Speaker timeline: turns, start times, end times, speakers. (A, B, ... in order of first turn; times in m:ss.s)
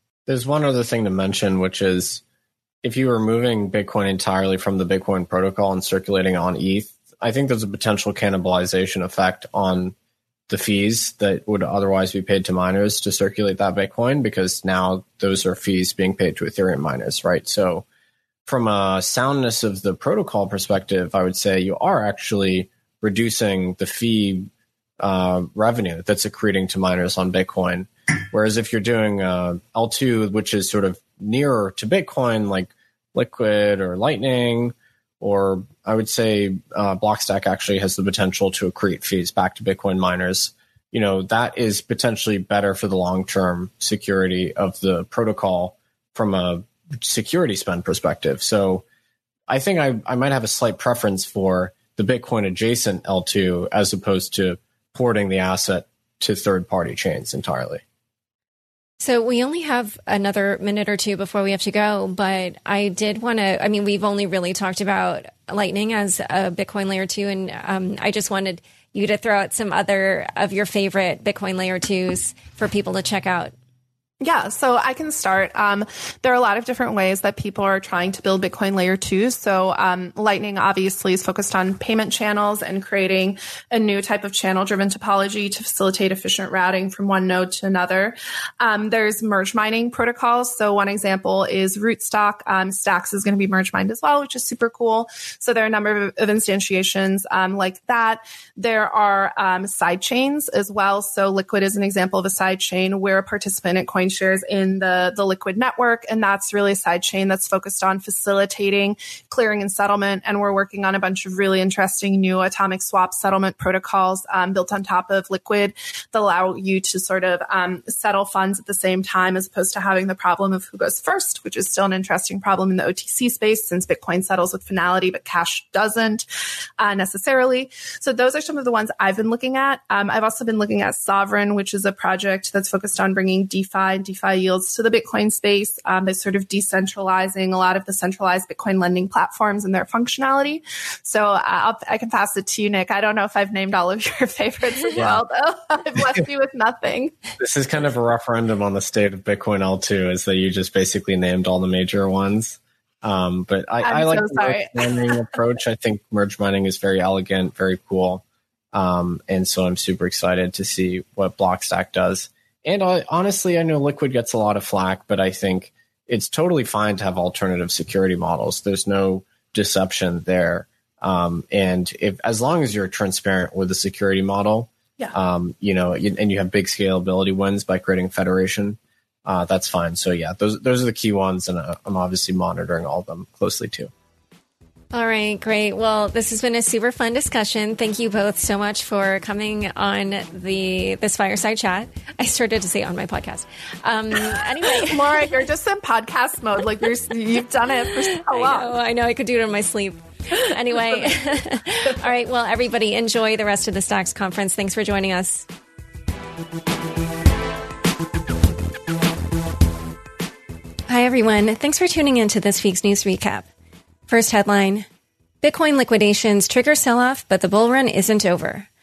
0:00.3-0:02.2 A
0:02.8-0:09.9 A
0:10.5-0:17.8 A
0:18.5-0:24.5 A
0:25.0-0:48.8 A
0:49.5-0:57.8 A
0:59.0-1:13.5 B
1:14.2-2:06.3 C
2:06.8-2:27.2 C
2:25.0-2:25.2 A
2:27.4-2:38.2 A
2:33.8-2:35.3 C
2:38.7-3:03.9 A
3:04.9-3:15.3 B
3:14.7-3:18.7 C
3:18.1-3:25.5 B
3:20.8-3:21.1 C
3:30.9-3:33.5 B
3:34.1-3:34.9 B
3:35.4-3:38.7 B